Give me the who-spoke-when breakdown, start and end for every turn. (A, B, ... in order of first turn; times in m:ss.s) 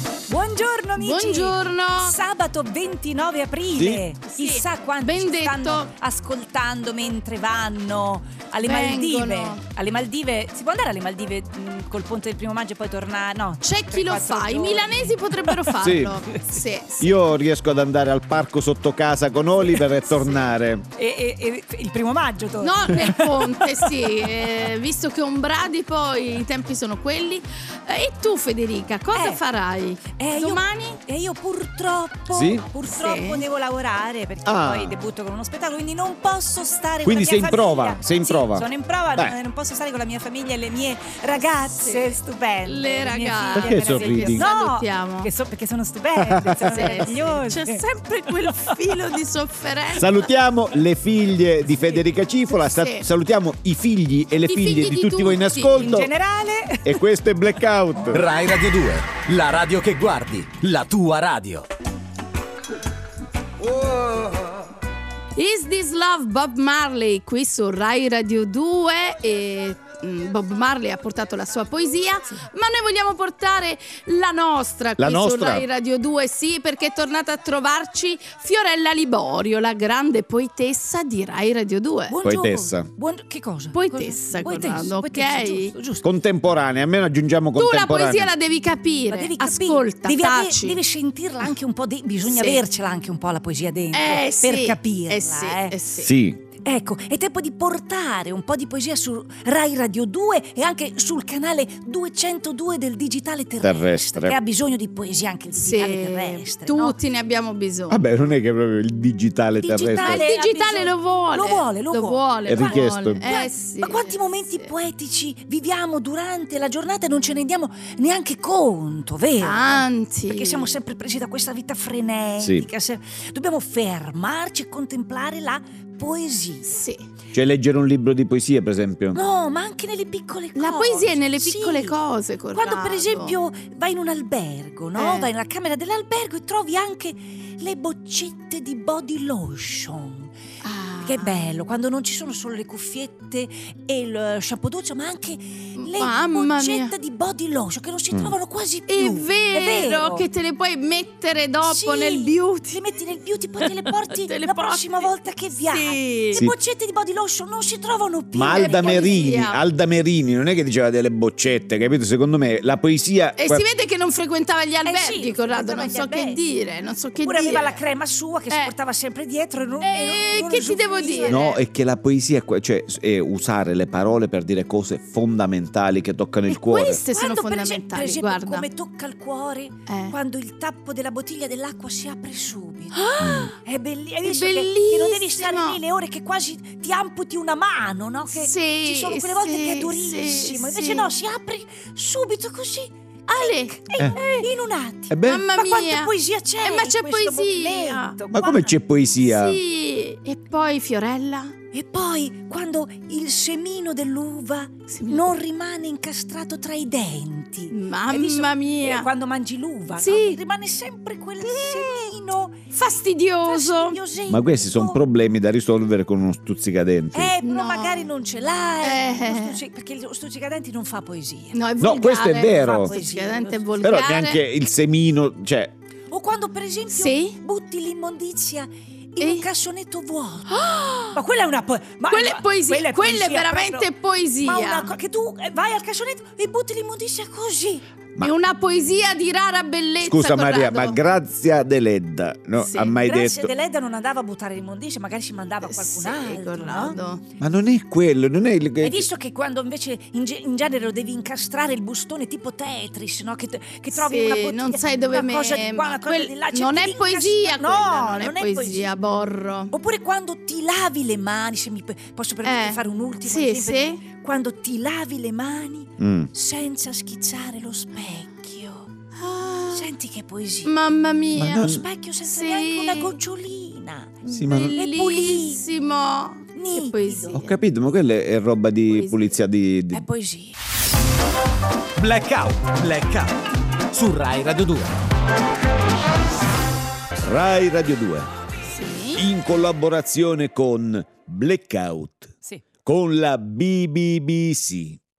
0:00.3-0:15.7 A
0:01.0-0:02.2 B
0:03.8-0:04.0 C
0:04.3-0:05.9 B
0:08.6-0:09.6 B
0:13.6-0:17.1 B
0:15.8-0:16.2 C
0:17.0-0:20.9 C
0:19.8-0:24.6 A
0:22.6-0:31.0 B
0:29.1-0:29.4 A
0:30.1-0:47.8 A
0:32.3-0:32.7 C
0:32.9-0:33.4 B
0:34.5-0:35.0 C
0:37.0-0:39.4 C
0:41.8-0:45.3 B
0:43.6-0:44.5 C
0:46.2-0:46.9 C
0:46.7-0:50.3 B
0:50.0-0:56.1 C
0:52.5-0:53.1 B
0:54.5-0:56.0 B
0:55.8-0:57.0 A
0:56.8-0:58.3 C
0:58.1-1:01.7 D
1:05.4-1:22.2 B
1:15.0-1:15.7 C
1:22.1-1:26.1 A
1:22.2-1:22.9 C
1:23.7-1:25.7 B
1:26.0-1:28.3 C
1:27.6-1:30.8 B
1:29.1-1:35.8 A
1:32.2-1:32.6 B
1:33.9-1:36.1 B
1:36.0-1:36.4 C
1:36.6-1:47.0 A
1:43.6-1:44.4 C
1:45.6-1:48.0 B
1:47.9-1:50.2 C
1:49.6-2:06.8 A
1:50.0-1:54.7 B
1:52.5-1:53.2 C
1:59.4-2:00.7 B
2:02.4-2:02.7 C
2:06.7-2:07.0 B
2:07.3-2:09.2 C
2:09.1-2:12.0 A
2:10.6-2:13.4 B
2:12.6-2:20.3 A
2:15.0-2:15.3 B
2:20.6-2:21.5 B
2:21.0-2:30.3 A
2:25.8-2:26.9 B
2:28.9-2:32.9 B
2:31.6-2:39.3 A
2:33.6-2:35.1 B
2:35.7-2:36.4 B
2:38.3-2:43.6 C
2:38.5-2:39.6 B
2:43.4-2:47.8 B
2:44.8-2:46.4 A
2:47.2-2:51.5 A
2:49.8-2:51.6 B
2:51.3-2:57.0 C
2:56.5-2:58.7 B
2:56.8-3:18.7 A
2:59.9-3:00.2 B
3:02.9-3:03.5 B
3:03.2-3:03.5 C
3:04.2-3:05.8 B
3:08.3-3:11.1 B
3:13.3-3:14.5 B
3:15.1-3:15.4 C
3:15.2-3:18.6 B
3:18.3-3:19.6 C
3:19.2-3:21.6 B
3:21.7-3:32.6 A
3:24.9-3:25.3 B
3:27.7-3:29.1 B
3:30.0-3:30.4 B
3:31.4-3:32.1 B
3:32.7-3:34.0 B
3:33.4-3:35.0 A
3:34.3-3:37.3 C
3:37.1-3:41.6 A
3:37.4-3:38.1 B
3:38.8-3:39.6 B
3:41.5-3:44.4 B
3:41.8-3:42.9 C
3:42.5-3:44.0 A
3:43.8-3:45.7 C
3:46.1-3:50.6 A
3:46.9-3:47.4 B
3:49.2-3:49.5 B
3:50.5-3:51.2 B
3:51.1-3:53.9 A
3:52.1-3:54.9 B
3:54.4-3:57.8 A
3:58.2-4:01.0 B
4:00.0-4:03.5 C
4:02.6-4:03.0 B
4:03.0-4:07.0 A
4:05.7-4:07.2 B
4:07.4-4:09.1 C
4:08.8-4:18.9 A
4:13.9-4:19.7 B
4:19.7-4:28.9 A
4:22.4-4:24.0 B
4:26.0-4:26.3 C
4:29.2-4:29.9 B
4:29.7-4:30.7 A
4:30.6-4:31.7 B
4:31.4-4:31.8 C
4:31.6-4:34.2 A
4:32.2-4:33.2 B
4:34.2-4:37.5 B
4:34.3-4:34.8 C
4:34.8-4:35.6 A
4:36.6-4:37.5 A
4:37.3-4:40.0 C
4:38.9-4:39.2 B
4:39.9-4:40.6 A
4:42.0-4:43.4 D
4:43.9-4:45.0 D
4:47.2-4:48.3 C
4:48.6-4:49.2 B
4:49.2-4:52.3 C
4:52.8-4:55.0 C